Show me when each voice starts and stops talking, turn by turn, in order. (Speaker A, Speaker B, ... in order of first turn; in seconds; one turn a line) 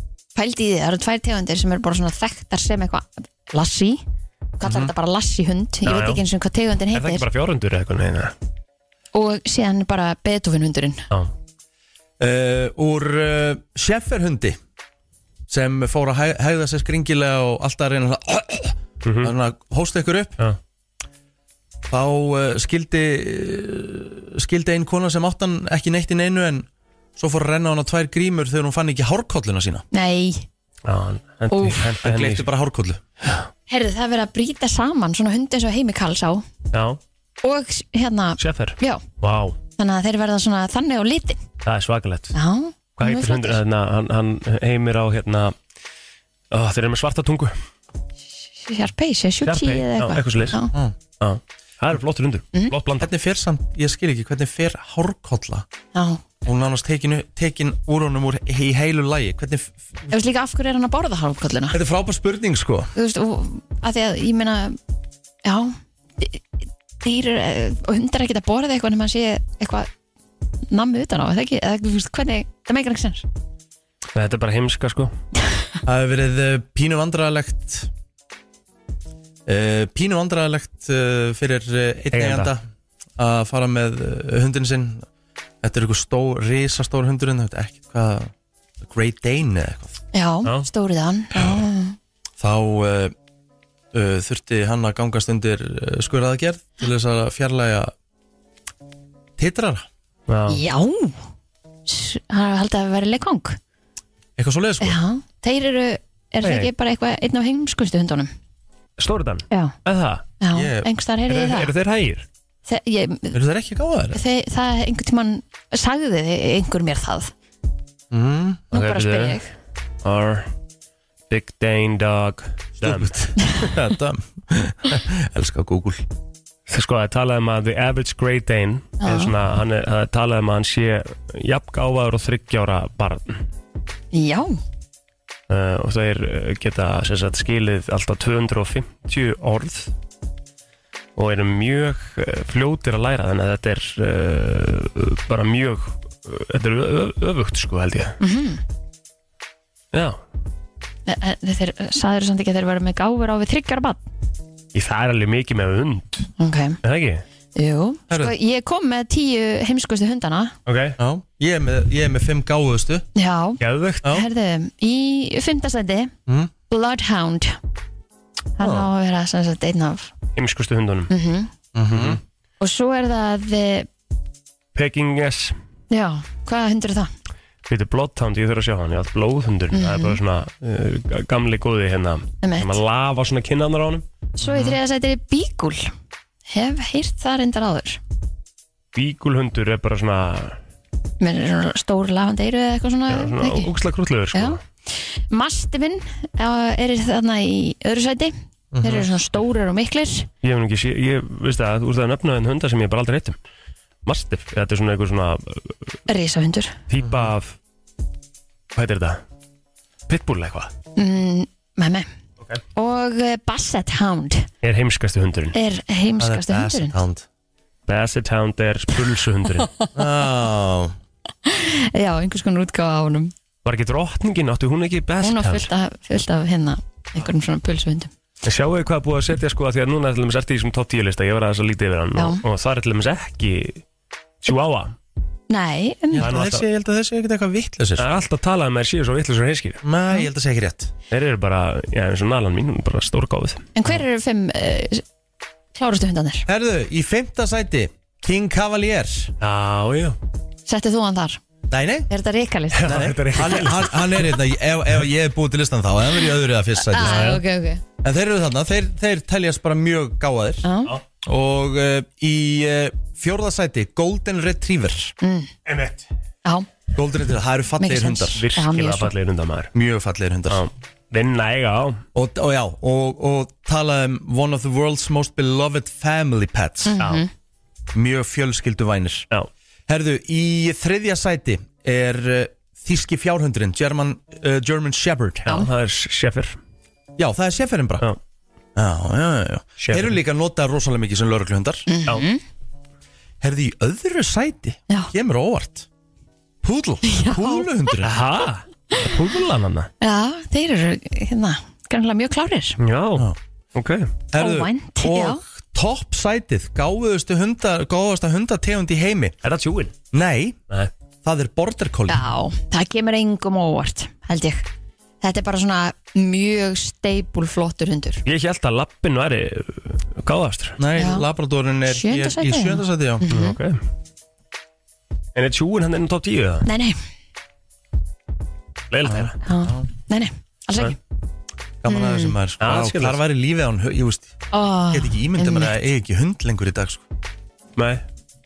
Speaker A: 0.3-4.0
Speaker A: 4.6-7.2
Speaker B: 4.6-4.9
Speaker C: 5.8-6.2
Speaker C: 6.9-8.3
Speaker A: 9.1-11.0
Speaker B: 12.2-14.6
Speaker B: 15.5-20.4
Speaker C: 19.0-19.3
Speaker B: 21.9-29.9
Speaker A: 29.9-30.4
Speaker C: 30.9-32.5
Speaker A: 31.5-31.8
Speaker B: 32.0-33.0
Speaker A: 33.7-36.5
Speaker C: 36.7-37.0
Speaker A: 37.4-39.0
Speaker C: 38.4-39.6
Speaker A: 39.8-41.4
Speaker C: 41.6-42.3
Speaker A: 42.3-43.6
Speaker C: 43.0-45.5
Speaker C: 46.5-47.5
Speaker A: 48.6-50.7
Speaker C: 49.4-50.6
Speaker C: 51.2-53.1
Speaker B: 53.0-55.6
Speaker A: 55.9-56.2
Speaker B: 56.4-59.8
Speaker A: 60.1-61.8
Speaker B: 61.7-62.9
Speaker A: 62.9-64.8
Speaker A: 65.4-66.4
Speaker A: 67.0-69.9
Speaker A: 70.7-73.2
Speaker C: 74.1-75.1
Speaker B: 75.8-77.9
Speaker B: 79.5-82.6
Speaker C: 82.1-82.5
Speaker B: 83.2-85.0
Speaker B: 85.6-90.0
Speaker A: 90.1-92.0
Speaker B: 92.4-93.1
Speaker B: 93.9-97.9
Speaker B: 99.4-99.8
Speaker C: 100.3-100.6
Speaker A: 100.5-101.2
Speaker A: 101.9-103.6
Speaker B: 104.4-105.0
Speaker A: 104.8-108.3
Speaker C: 106.4-106.7
Speaker C: 109.0-110.2
Speaker A: 109.5-109.8
Speaker A: 110.4-111.7
Speaker B: 110.5-110.9
Speaker C: 111.3-112.2
Speaker A: 112.7-113.4
Speaker B: 113.3-114.2
Speaker A: 114.1-117.3
Speaker B: 118.1-118.7
Speaker A: 118.7-119.5
Speaker C: 118.7-119.4
Speaker C: 120.0-120.5
Speaker C: 121.3-123.1
Speaker B: 122.8-126.0
Speaker C: 126.7-133.4
Speaker A: 129.0-129.3
Speaker A: 134.1-134.6
Speaker C: 135.5-139.9
Speaker C: 141.2-148.2
Speaker A: 148.2-148.6
Speaker C: 149.9-150.2
Speaker A: 151.1-154.0
Speaker C: 154.7-156.3
Speaker A: 156.4-156.8
Speaker C: 156.8-157.2
Speaker A: 157.6-160.6
Speaker C: 160.7-161.0
Speaker B: 161.0-163.1
Speaker A: 163.2-166.1
Speaker C: 163.6-164.1
Speaker A: 166.7-167.6
Speaker A: 168.6-170.1
Speaker B: 168.6-168.9
Speaker C: 170.3-171.1
Speaker A: 171.1-171.5
Speaker B: 171.7-172.2
Speaker C: 171.9-172.2
Speaker A: 172.6-173.9
Speaker C: 174.7-175.6
Speaker A: 175.9-177.1
Speaker C: 177.7-184.0
Speaker A: 179.7-180.2
Speaker A: 182.4-182.8
Speaker A: 184.4-185.9
Speaker B: 184.4-184.8
Speaker A: 186.5-188.0
Speaker C: 188.9-190.6
Speaker A: 191.2-193.7
Speaker C: 193.1-194.6
Speaker A: 194.3-200.3
Speaker B: 198.7-199.1
Speaker C: 200.4-203.4
Speaker C: 204.0-205.8
Speaker A: 206.1-206.8
Speaker C: 206.9-207.6
Speaker B: 207.0-207.3
Speaker C: 208.7-209.2
Speaker C: 210.1-210.7
Speaker A: 210.9-212.1
Speaker A: 212.8-214.5
Speaker C: 214.6-215.5
Speaker A: 215.5-217.0
Speaker B: 216.2-217.2
Speaker C: 217.9-219.7
Speaker B: 219.9-220.9
Speaker A: 221.4-223.3
Speaker C: 223.6-225.7
Speaker A: 225.2-228.1
Speaker C: 228.4-233.8
Speaker A: 232.2-232.4
Speaker C: 234.4-234.9
Speaker A: 235.5-236.2
Speaker B: 236.1-238.1
Speaker C: 236.2-236.6
Speaker C: 238.0-239.8
Speaker B: 239.8-240.9
Speaker C: 241.1-243.9
Speaker A: 243.8-245.0
Speaker A: 245.7-246.4
Speaker B: 246.4-249.3
Speaker C: 249.4-250.2
Speaker A: 250.7-251.4
Speaker B: 251.7-252.1
Speaker A: 252.1-252.9
Speaker C: 252.7-254.4
Speaker B: 252.8-257.3
Speaker A: 256.8-257.8
Speaker C: 257.0-257.4
Speaker B: 258.0-260.7
Speaker A: 260.6-260.9
Speaker B: 261.2-265.1
Speaker A: 265.2-265.5
Speaker C: 265.6-266.1
Speaker B: 266.9-268.4
Speaker A: 267.8-269.1
Speaker C: 268.3-269.7
Speaker B: 269.7-270.6
Speaker C: 270.5-272.0
Speaker B: 272.1-277.0
Speaker A: 276.9-277.3
Speaker B: 277.9-279.3
Speaker B: 279.9-285.5
Speaker C: 285.5-286.6
Speaker B: 287.2-288.1
Speaker B: 288.8-291.9
Speaker C: 289.8-290.2
Speaker A: 291.9-292.4
Speaker B: 293.4-295.9
Speaker B: 296.6-298.2
Speaker A: 297.0-297.7
Speaker C: 298.0-299.9
Speaker A: 300.0-302.8
Speaker C: 302.8-304.1
Speaker B: 304.3-309.4
Speaker A: 304.4-305.4
Speaker C: 309.4-310.0
Speaker B: 310.1-310.6
Speaker B: 311.2-312.2
Speaker A: 312.1-314.7
Speaker A: 315.2-318.2
Speaker C: 318.2-320.8
Speaker B: 320.8-323.2
Speaker A: 321.0-321.2
Speaker A: 321.9-323.6
Speaker C: 323.3-323.8
Speaker C: 325.3-326.7
Speaker A: 326.6-327.0
Speaker C: 328.9-329.3
Speaker B: 329.0-329.9
Speaker A: 329.4-330.9
Speaker B: 331.8-334.3
Speaker A: 331.9-332.3
Speaker C: 332.6-333.2
Speaker A: 334.5-335.7
Speaker B: 334.9-337.0
Speaker C: 337.8-338.0